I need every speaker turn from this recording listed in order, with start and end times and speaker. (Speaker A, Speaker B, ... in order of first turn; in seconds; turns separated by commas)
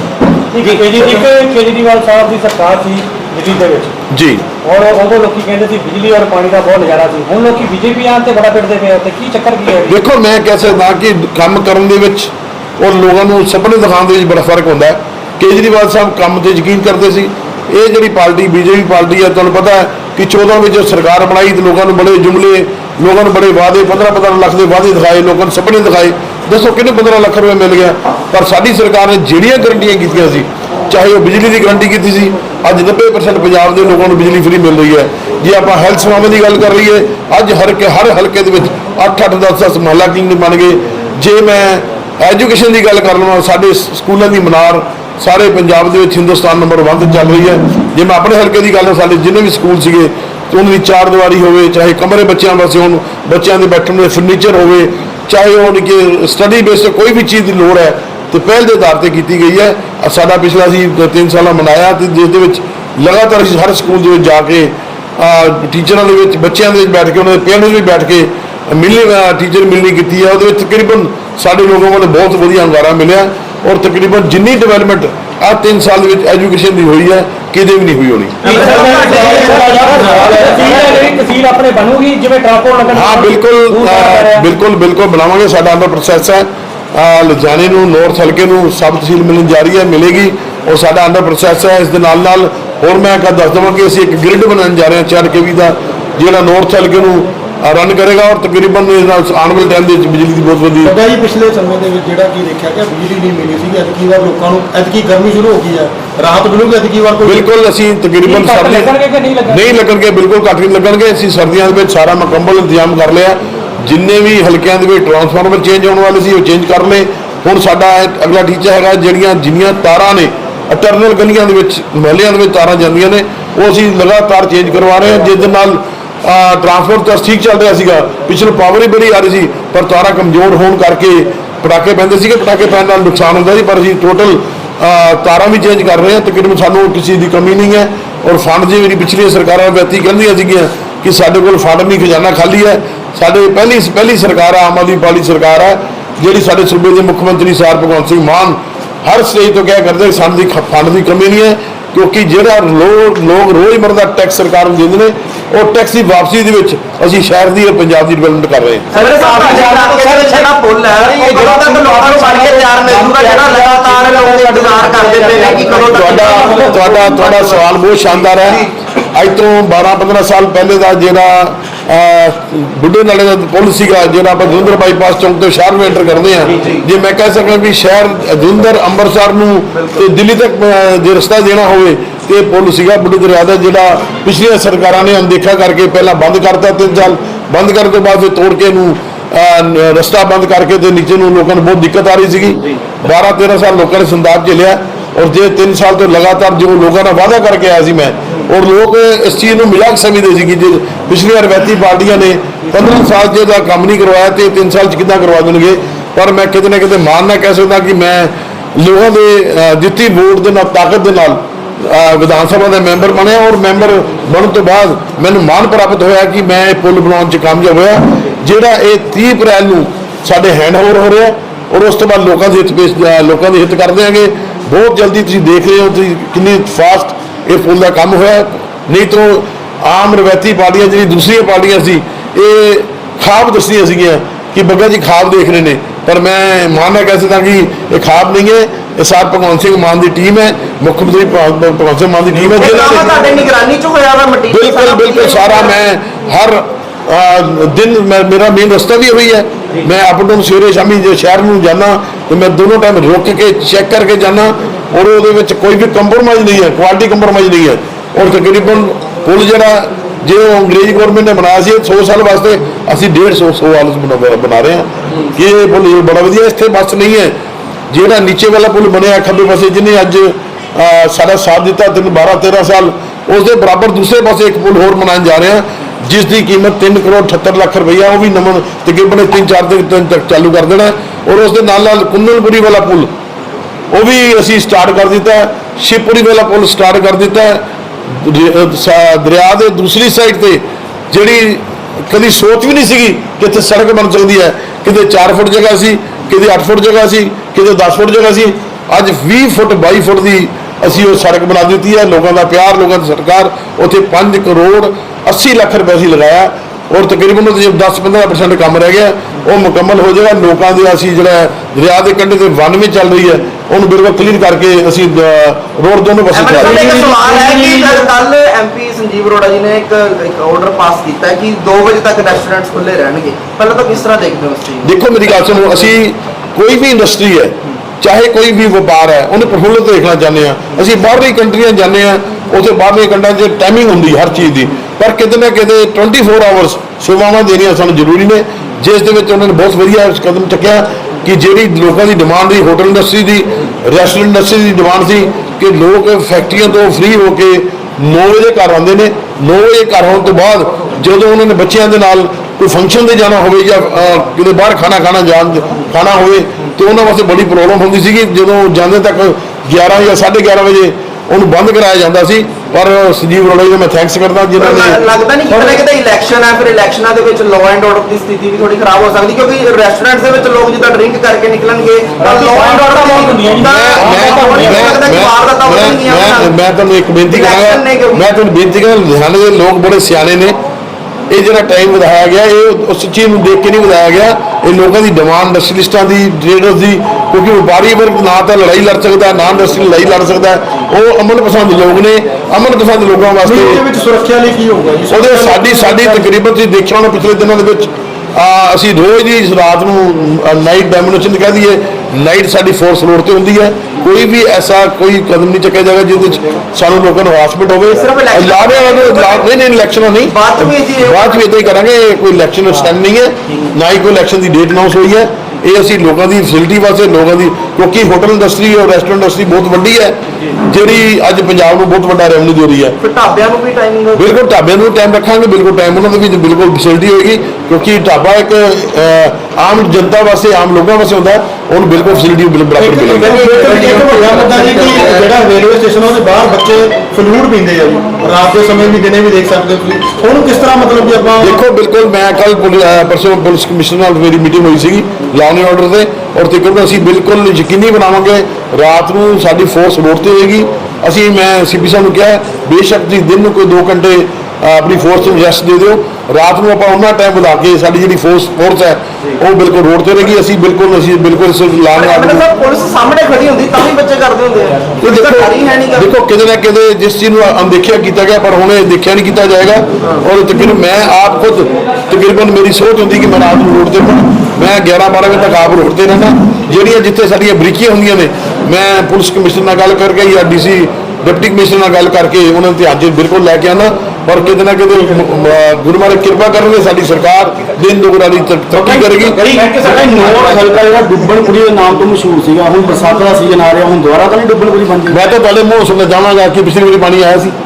Speaker A: 0.5-3.9, Speaker B: 4.1-4.4, Speaker A: 4.6-10.0, Speaker B: 9.9-78.4, Speaker C: 78.4-80.9, Speaker D: 78.4-79.8, Speaker A: 78.5-84.5, Speaker B: 82.9-100.9, Speaker C: 100.8-107.4, Speaker B: 107.2-108.9, Speaker A: 108.2-109.8, Speaker B: 109.5-158.9, Speaker D: 158.9-168.7, Speaker A: 158.9-167.0, Speaker B: 165.9-243.2, Speaker D: 242.4-245.8, Speaker B: 244.5-267.3, Speaker B: 267.9-283.1, Speaker B: 283.9-316.9, Speaker D: 316.3-324.9, Speaker C: 316.7-318.1, Speaker B: 324.8-365.0, Speaker D: 364.6-376.5, Speaker A: 365.5-365.8, Speaker A: 372.2-375.0, Speaker B: 373.6-380.6, Speaker D: 377.3-378.3, Speaker B: 381.3-393.8, Speaker C: 393.4-396.3, Speaker B: 395.1-422.9, Speaker D: 407.9-409.5, Speaker D: 410.2-411.6, Speaker D: 423.0-424.3, Speaker B: 424.1-435.3, Speaker C: 432.8-441.6, Speaker D: 433.6-434.0, Speaker B: 441.4-462.4, Speaker D: 461.9-466.1, Speaker B: 465.0-489.4, Speaker E: 488.7-495.2, Speaker C: 489.3-490.6, Speaker B: 495.1-497.5